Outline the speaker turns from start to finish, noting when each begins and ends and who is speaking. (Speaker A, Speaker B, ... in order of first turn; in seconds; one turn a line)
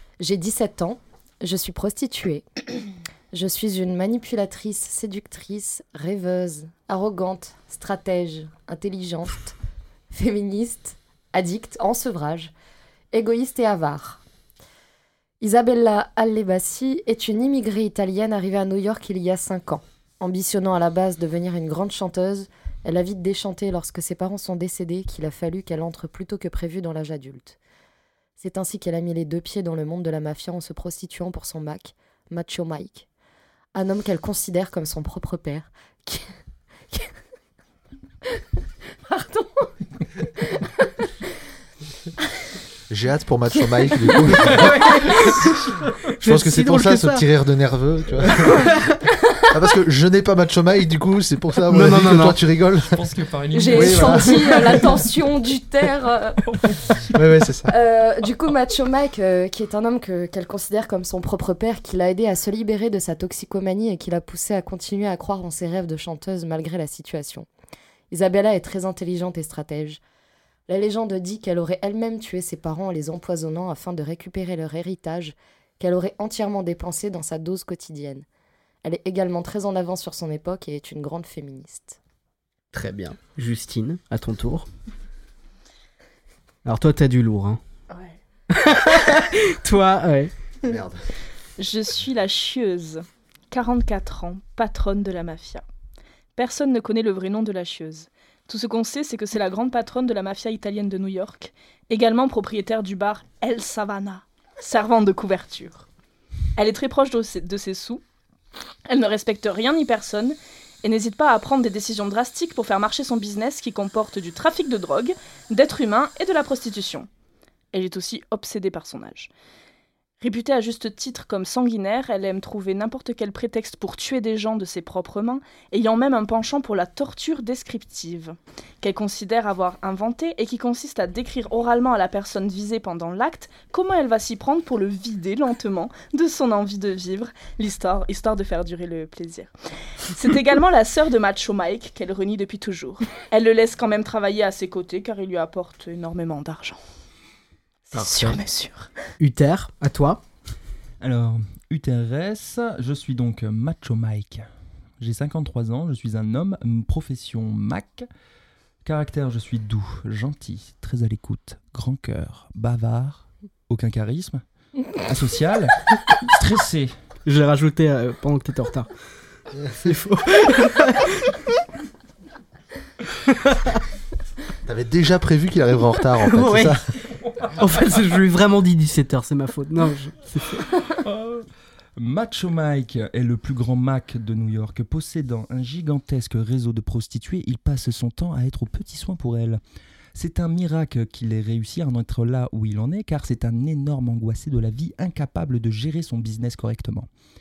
Speaker A: 0.2-2.6
Speaker A: 3.3-9.6
Speaker A: 10.1-12.5
Speaker A: 13.1-14.2
Speaker A: 15.4-27.6
Speaker A: 28.4-33.1
Speaker A: 33.8-36.3
Speaker A: 39.1-39.7
Speaker B: 42.9-45.4
Speaker C: 44.5-47.2
Speaker B: 46.2-48.7
Speaker C: 48.4-48.7
Speaker B: 49.5-53.0
Speaker C: 51.7-52.4
Speaker D: 52.8-54.9
Speaker A: 53.5-56.4
Speaker B: 53.7-54.8
Speaker D: 56.6-56.9
Speaker B: 57.1-57.7
Speaker A: 57.7-67.5
Speaker A: 68.1-70.0
Speaker A: 70.7-78.2
Speaker A: 78.8-82.0
Speaker C: 82.7-84.7
Speaker C: 86.7-87.6
Speaker E: 87.9-88.2
Speaker C: 88.5-90.3
Speaker B: 90.6-91.0
Speaker E: 91.6-95.6
Speaker E: 96.4-105.9
Speaker E: 106.6-108.0
Speaker E: 108.9-117.1
Speaker E: 117.7-119.3
Speaker E: 120.2-139.5
Speaker E: 140.1-146.8
Speaker E: 147.9-148.9
Speaker C: 147.9-148.4
Speaker C: 149.2-150.2
Speaker D: 151.0-154.5
Speaker D: 155.0-158.1
Speaker D: 158.8-164.4
Speaker D: 164.9-166.9
Speaker C: 167.3-168.9
Speaker C: 169.8-171.4
Speaker C: 173.3-173.8
Speaker B: 174.7-176.9
Speaker C: 176.2-176.8
Speaker D: 177.3-177.5
Speaker C: 177.6-180.6
Speaker D: 180.9-181.5
Speaker D: 182.0-189.6
Speaker D: 190.1-197.1